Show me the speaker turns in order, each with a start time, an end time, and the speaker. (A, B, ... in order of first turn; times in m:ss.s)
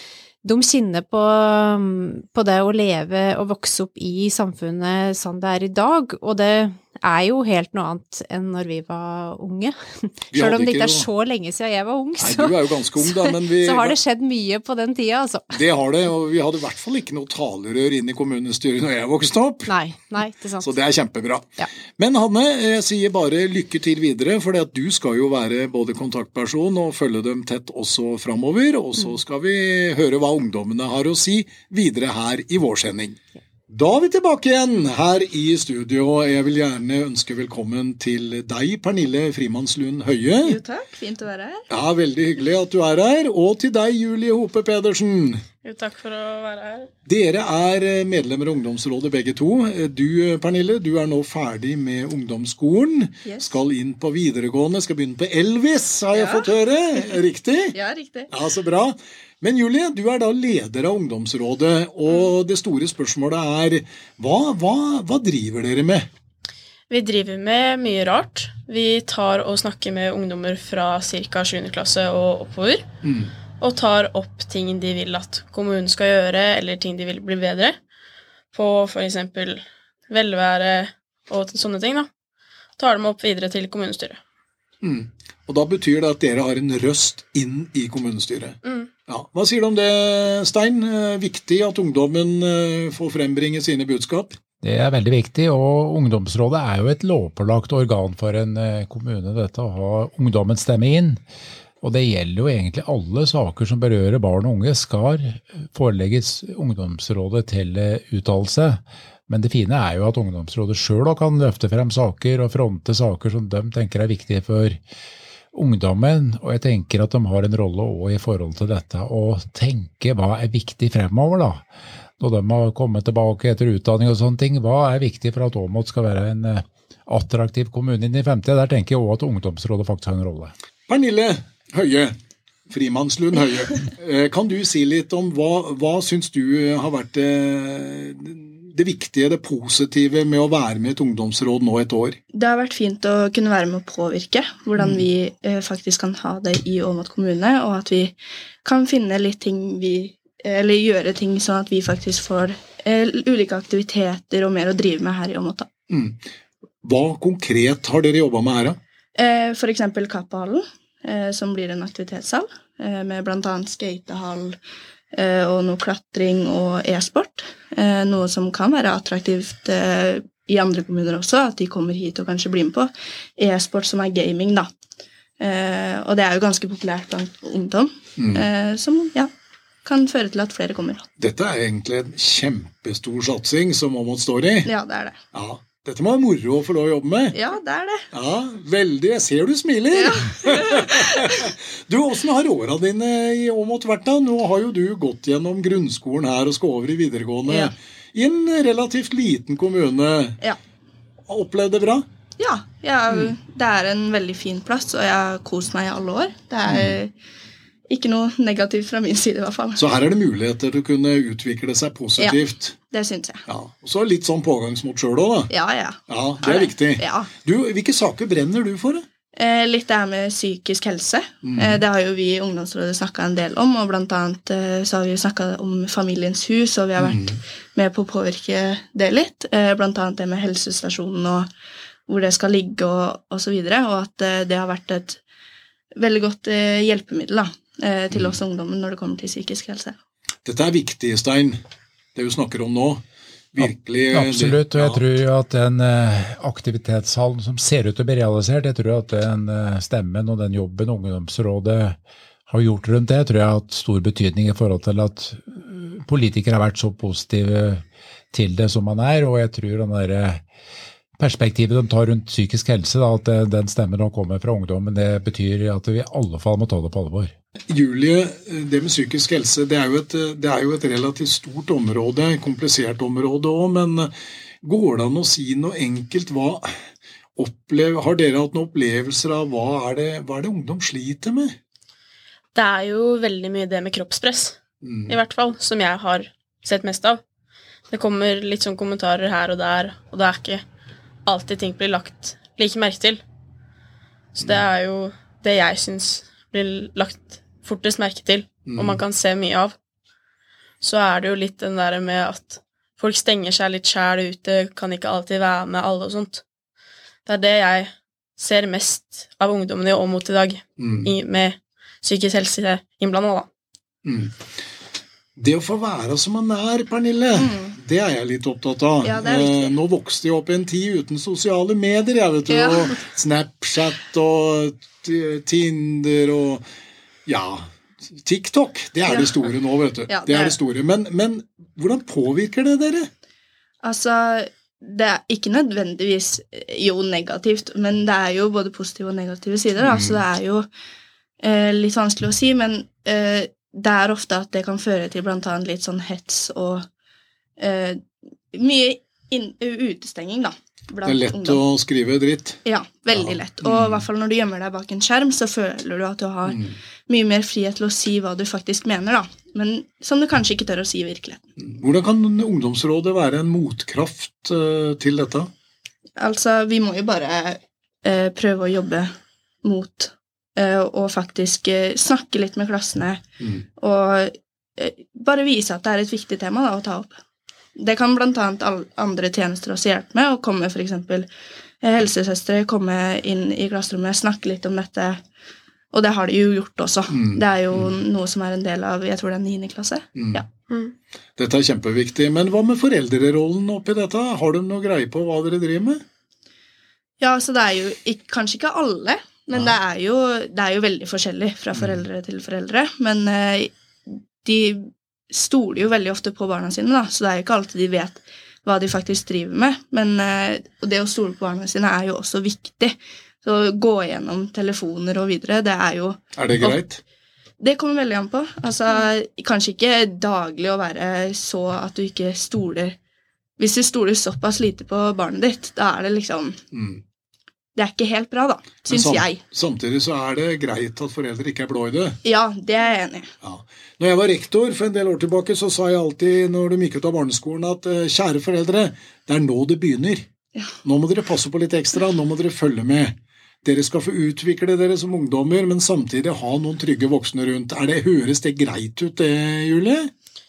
0:00.4-0:15.6 A
0:10.3-0:11.1 B
0:12.2-0:14.0 B
0:15.5-0:19.8 B
0:19.7-0:20.8 A
0:20.6-0:40.6 B
0:40.4-0:41.6 C
0:41.7-0:45.4 B
0:45.6-0:46.9 D
0:47.1-0:57.8 B
0:56.1-0:56.5 C
0:57.7-0:58.3 C
0:58.3-1:06.1 B
1:06.9-1:12.9 D
1:13.0-1:13.3 B
1:13.6-1:17.8 D
1:18.5-1:22.1 D
1:22.8-1:24.2 D
1:24.8-1:34.4 B
1:28.6-1:28.9 D
1:34.6-1:41.2 E
1:41.8-1:54.8 E
1:55.5-2:01.6 E
2:02.2-2:10.5 E
2:10.9-2:12.2 B
2:12.7-2:22.2 B
2:22.3-2:35.7 C
2:24.8-2:25.0 B
2:35.9-2:36.2 B
2:36.8-2:38.8 B
2:39.2-2:44.6 C
2:45.1-2:54.7 C
2:55.4-2:59.3 C
2:58.2-2:58.4 B
2:59.8-3:01.0 C
3:01.2-3:04.7 B
3:04.6-3:05.2 C
3:05.3-3:07.4 B
3:07.3-3:08.1 C
3:08.1-3:20.4 B
3:09.9-3:11.1 C
3:17.5-3:17.7 C
3:21.3-3:22.0 B
3:22.4-3:27.1 C
3:26.7-3:27.0 B
3:27.9-3:29.8 C
3:29.8-3:32.8 B
3:32.2-3:33.4 C
3:33.5-3:35.5 B
3:35.5-3:37.3 C
3:36.1-3:39.0 B
3:39.4-3:51.5 C
3:41.4-3:41.8 B
3:47.0-3:47.4 B
3:52.1-3:55.2 C
3:56.0-4:00.0 C
3:58.1-3:58.4 B
4:00.4-4:01.6 B
4:02.2-4:03.0 B
4:03.5-4:05.0 B
4:03.6-4:20.4 E
4:21.2-4:27.3 E
4:27.7-4:34.1 B
4:34.6-4:36.7 B
4:37.4-4:41.6 B
4:42.5-4:44.6 D
4:44.8-4:45.2 B
4:45.1-4:47.2 D
4:47.9-4:50.6 D
4:51.3-4:53.2 D
4:54.4-4:59.8 D
4:58.7-4:59.0 B
5:00.8-5:06.4 D
5:07.3-5:13.5 D
5:10.8-5:11.1 B
5:14.0-5:14.4 B
5:15.4-5:26.6 B
5:17.4-5:17.8 C
5:19.0-5:19.8 C
5:22.5-5:23.0 C
5:27.3-5:33.1 B
5:29.1-5:29.3 C
5:30.1-5:30.6 C
5:33.8-5:40.7 C
5:39.8-5:40.2 B
5:41.4-5:46.9 C
5:47.6-5:48.0 C
5:48.5-5:51.6 C
5:51.0-5:52.6 B
5:52.6-6:01.4 C
5:53.1-5:54.1 B
5:56.5-5:56.8 B
6:01.6-6:05.5 B
6:06.2-6:09.1 C
6:09.6-6:13.2 C
6:13.8-6:17.2 C
6:17.8-6:21.3 C
6:21.8-6:25.2 C
6:25.9-6:30.5 C
6:27.1-6:28.0 B
6:30.2-6:30.4 B
6:31.4-6:36.0 B
6:37.2-6:56.8 C
6:41.7-6:42.0 B
6:56.4-6:57.0 B
6:57.6-7:03.0 C
7:03.6-7:06.6 C
7:06.7-7:07.0 B
7:07.8-7:09.4 C
7:08.9-7:12.2 B
7:12.2-7:13.3 C
7:13.4-7:20.3 B
7:20.8-7:30.1 B